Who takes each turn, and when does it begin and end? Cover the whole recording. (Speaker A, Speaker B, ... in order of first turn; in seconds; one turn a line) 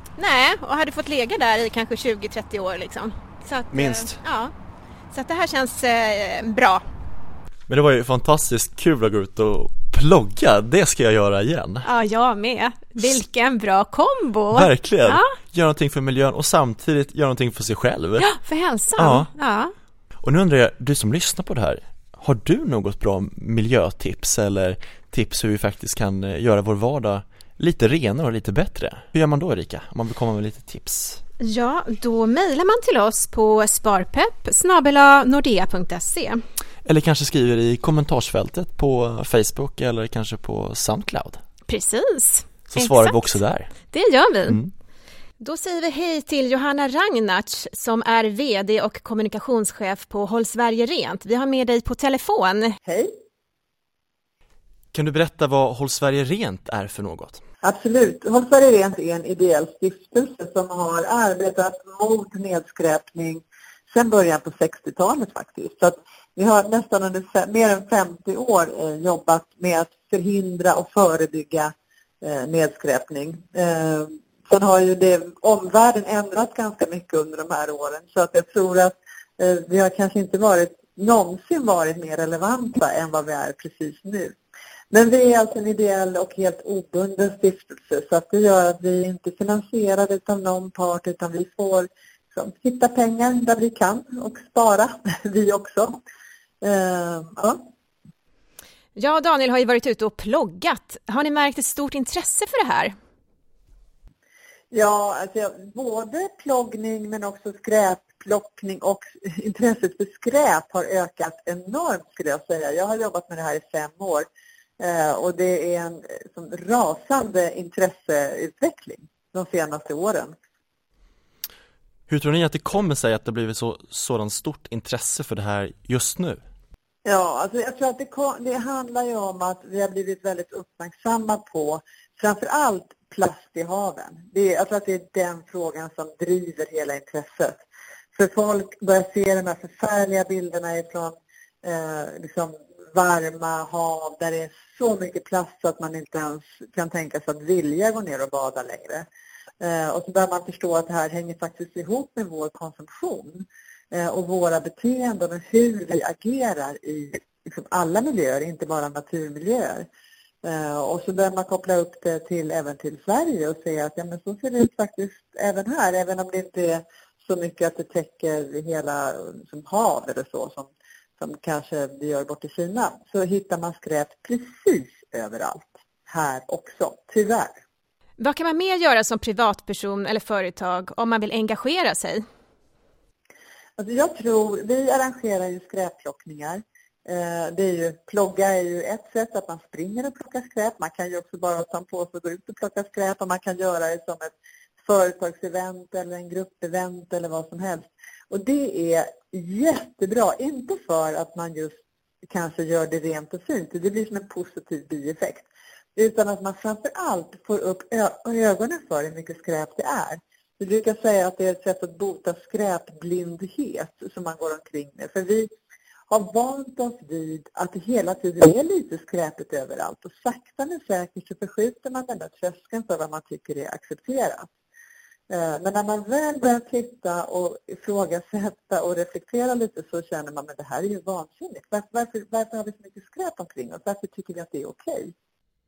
Speaker A: 0.2-4.5
Speaker B: 3.7-4.2
Speaker A: 5.1-6.8
Speaker B: 7.7-11.9
Speaker A: 11.8-15.3
Speaker B: 14.5-18.2
Speaker A: 18.2-19.7
Speaker B: 19.0-19.3
Speaker B: 20.2-31.2
Speaker A: 31.4-36.4
Speaker B: 36.9-41.4
Speaker A: 41.7-43.4
Speaker B: 42.7-43.7
Speaker A: 43.9-44.6
Speaker A: 45.4-52.8
Speaker C: 52.9-53.1
Speaker B: 54.9-57.4
Speaker C: 57.6-84.4
Speaker C: 84.9-96.0
Speaker C: 96.6-97.6
Speaker A: 99.0-102.9
Speaker C: 104.7-114.3
Speaker C: 114.8-120.3
Speaker B: 122.1-126.4
Speaker C: 127.0-149.1
Speaker C: 149.6-159.9
Speaker C: 160.4-177.6
Speaker A: 178.2-182.2
Speaker C: 183.8-215.5
Speaker C: 216.1-224.5
Speaker C: 225.3-235.1